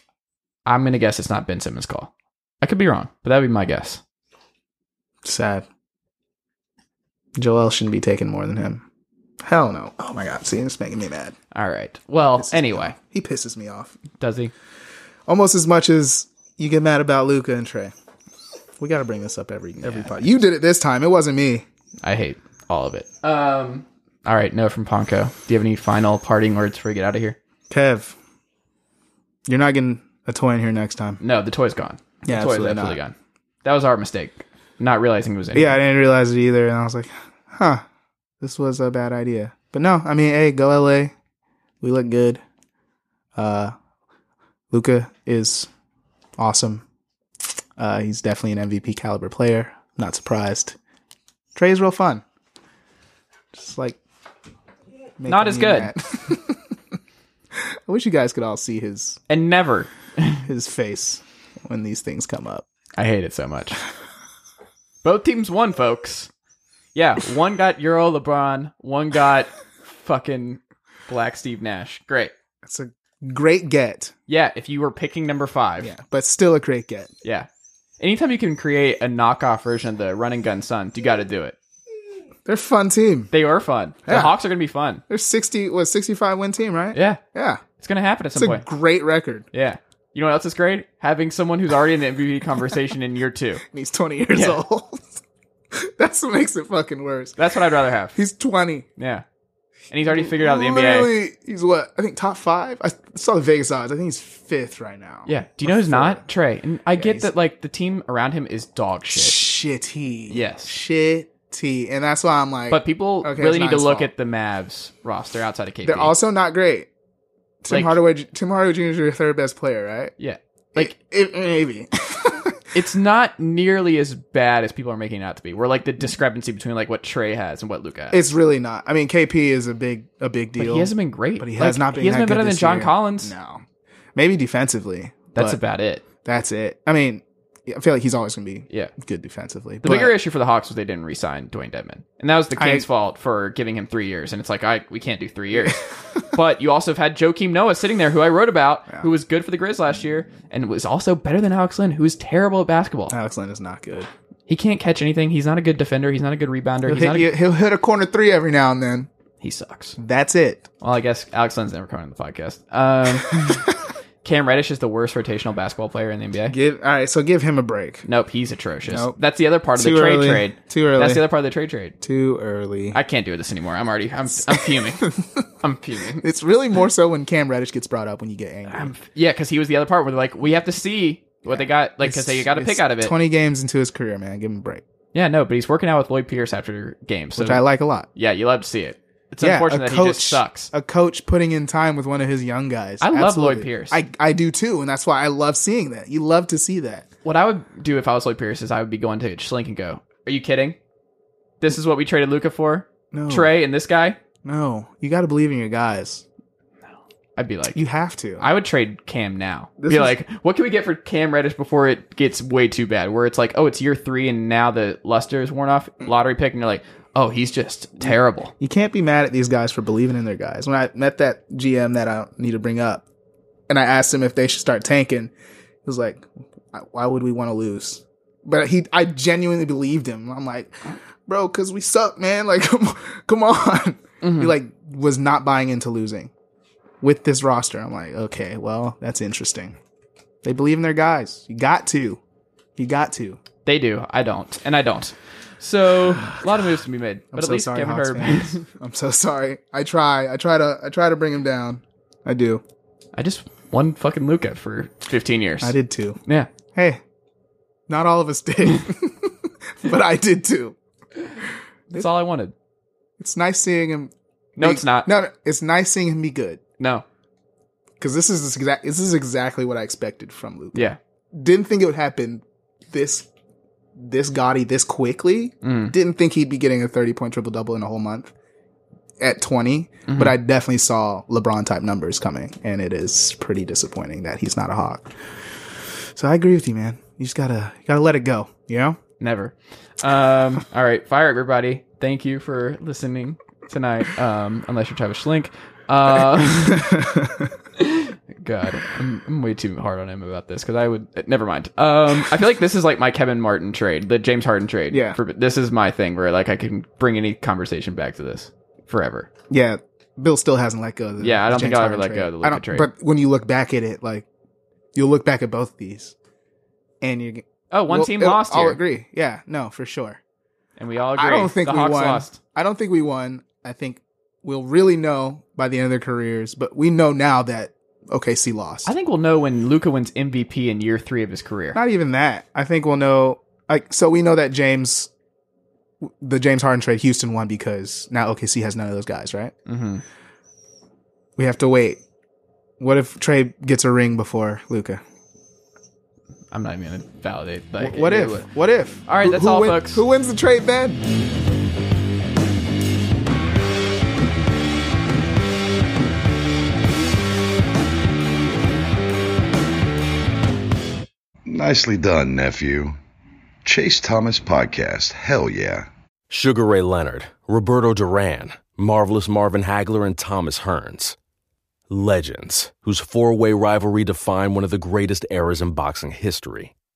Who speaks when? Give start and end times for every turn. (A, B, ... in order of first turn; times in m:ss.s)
0:00.7-0:02.1 A
0:02.6-0:04.0 A
0:05.2-0:05.7 B
0:07.4-0:08.8 B
0:09.4-0:11.4 B
0:11.5-0:13.0 A
0:12.4-0:14.0 B
0:14.2-0:14.5 A
0:15.3-0:17.9 B
0:18.8-0:21.7 B
0:19.8-0:20.3 A
0:22.0-0:27.4 A
0:27.7-0:28.2 B
0:29.5-0:31.2 B
0:31.2-0:35.8 A
0:32.2-0:33.0 B
0:35.5-0:37.8 B
0:38.4-0:41.1 B
0:41.8-0:42.4 B
0:43.4-0:43.7 B
0:44.7-0:45.7 B
0:46.4-0:46.8 B
0:47.8-0:50.8 B
0:51.6-0:52.2 B
0:53.5-0:54.0 B
0:55.2-0:56.6 B
0:55.3-0:55.9 A
0:57.6-0:59.2 B
0:59.3-1:00.4 A
1:00.5-1:02.7 B
1:03.0-1:03.8 A
1:05.0-1:06.3 A
1:07.0-1:12.3 A
1:12.6-1:14.1 B
1:14.3-1:15.9 A
1:15.8-1:17.1 B
1:18.0-1:21.6 A
1:22.5-1:23.3 B
1:23.3-1:25.0 A
1:24.1-1:24.3 B
1:25.1-1:27.6 B
1:26.9-1:27.2 A
1:27.8-1:28.7 A
1:28.4-1:29.5 B
1:29.5-1:33.6 A
1:33.6-1:35.2 B
1:35.7-1:37.4 B
1:37.4-1:38.2 A
1:38.1-1:38.9 B
1:39.0-1:39.2 A
1:39.9-1:41.1 A
1:40.1-1:46.2 B
1:45.3-1:49.5 A
1:47.0-1:47.3 B
1:49.1-1:54.1 B
1:50.3-1:50.8 A
1:52.7-1:56.1 A
1:55.8-1:56.9 B
1:57.6-2:00.1 B
1:57.7-1:58.0 A
2:00.2-2:01.0 A
2:00.7-2:02.6 B
2:02.7-2:08.2 A
2:08.1-2:13.6 B
2:10.6-2:13.3 A
2:14.2-2:15.6 B
2:15.4-2:16.0 A
2:16.2-2:20.2 B
2:19.8-2:33.2 A
2:22.6-2:22.9 B
2:33.1-2:34.1 B
2:34.5-2:37.3 A
2:36.9-2:39.1 B
2:39.4-2:40.0 A
2:40.0-2:40.7 B
2:40.8-2:43.7 A
2:43.3-2:43.8 B
2:44.2-2:46.6 A
2:46.5-2:48.0 B
2:48.1-2:52.0 A
2:48.9-2:49.2 B
2:49.7-2:51.2 B
2:52.0-2:53.0 B
2:52.9-2:56.2 A
2:54.4-2:55.4 B
2:56.2-2:58.9 B
2:58.7-3:03.2 A
3:01.4-3:04.8 B
3:05.1-3:07.6 A
3:07.4-3:08.1 B
3:08.2-3:10.7 A
3:09.4-3:17.1 B
3:13.0-3:14.0 A
3:17.2-3:20.8 A
3:21.6-3:24.2 A
3:23.1-3:23.5 B
3:24.4-3:26.2 B
3:27.4-3:27.8 A
3:27.7-3:28.4 B
3:28.4-3:38.5 A
3:29.8-3:30.2 B
3:38.1-3:43.0 B
3:43.7-3:45.3 B
3:45.8-3:56.3 B
3:54.2-3:54.5 A
3:57.0-3:59.8 B
4:00.4-4:02.2 B
4:02.8-4:03.4 B
4:03.6-4:08.7 A
4:07.3-4:12.6 B
4:13.2-4:15.8 A
4:15.6-4:16.2 B
4:16.3-4:16.5 A
4:16.7-4:17.0 B
4:17.9-4:20.8 B
4:21.9-4:22.5 A
4:23.2-4:26.6 B
4:24.6-4:25.1 A
4:26.8-4:27.0 A
4:28.0-4:33.3 B
4:34.0-4:38.3 B
4:35.6-4:35.9 A
4:39.2-4:45.1 B
4:40.1-4:40.4 A
4:46.2-4:49.0 B
4:49.2-4:57.0 A
4:56.7-4:57.5 B
4:57.8-5:09.3 A
5:04.9-5:05.2 B
5:09.5-5:14.3 B
5:11.2-5:12.9 A
5:15.0-5:16.2 B
5:17.0-5:20.2 B
5:17.7-5:18.8 A
5:20.8-5:22.4 A
5:21.2-5:28.9 B
5:28.9-5:31.8 A
5:31.8-5:35.1 B
5:36.0-5:39.5 B
5:39.7-5:40.0 A
5:41.4-5:42.0 B
5:42.8-5:45.0 B
5:46.5-5:48.5 A
5:47.8-5:51.0 B
5:49.1-5:50.0 A
6:01.5-6:03.0 C
6:03.6-6:05.9 C
6:06.3-6:11.2 D
6:11.9-6:16.7 D